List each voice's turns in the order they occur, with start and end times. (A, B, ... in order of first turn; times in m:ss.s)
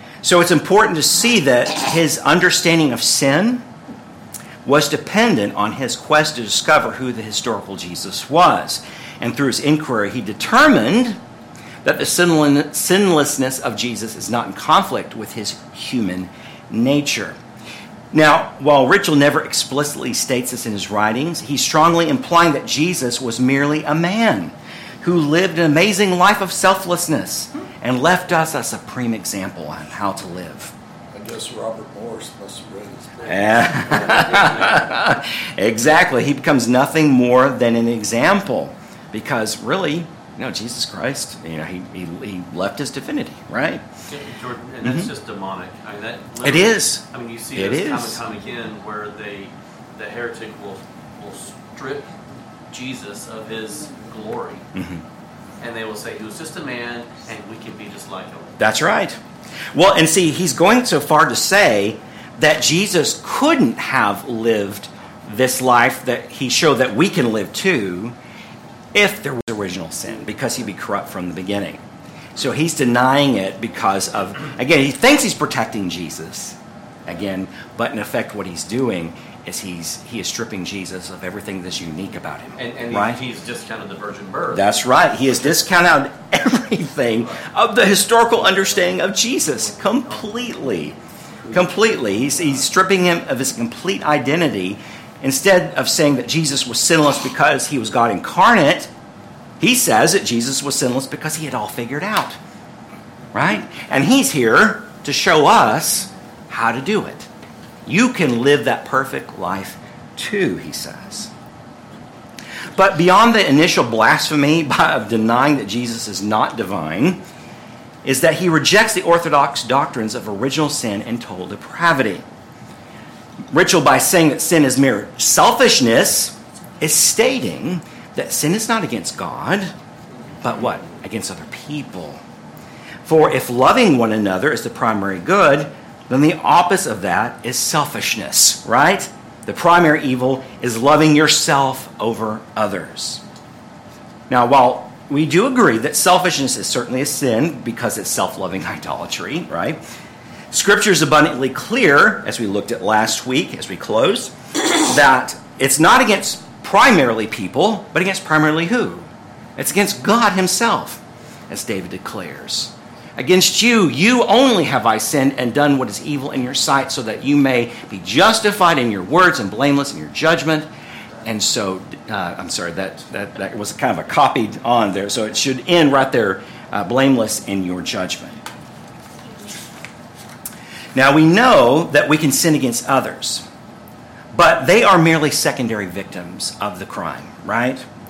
0:00.2-0:03.6 A
0:04.6-0:11.2 A
0:11.8-0:17.4 A
0:18.1-0:30.7 A
0:31.1-0:34.8 B
0:33.3-0:43.8 A
0:44.1-0:52.1 C
0:44.8-0:45.1 A
0:46.4-0:48.2 A
0:52.7-0:54.7 C
0:54.8-0:55.0 A
0:55.6-0:58.6 C
0:58.6-0:59.2 A
0:59.7-1:08.2 A
1:08.9-1:11.8 A
1:12.4-1:23.2 A
1:22.6-1:24.8 C
1:24.5-1:31.0 A
1:31.5-1:38.9 A
1:39.6-1:42.4 A
1:43.3-1:47.3 A
1:47.9-1:51.3 A
1:52.7-1:57.2 A
1:58.0-2:02.2 A
2:03.5-2:09.7 A
2:10.4-2:12.2 A
2:13.1-2:23.2 A
2:24.3-2:29.8 A
2:30.5-2:50.7 A
2:51.2-2:58.4 A
3:01.0-3:03.4 A
3:04.3-3:07.8 A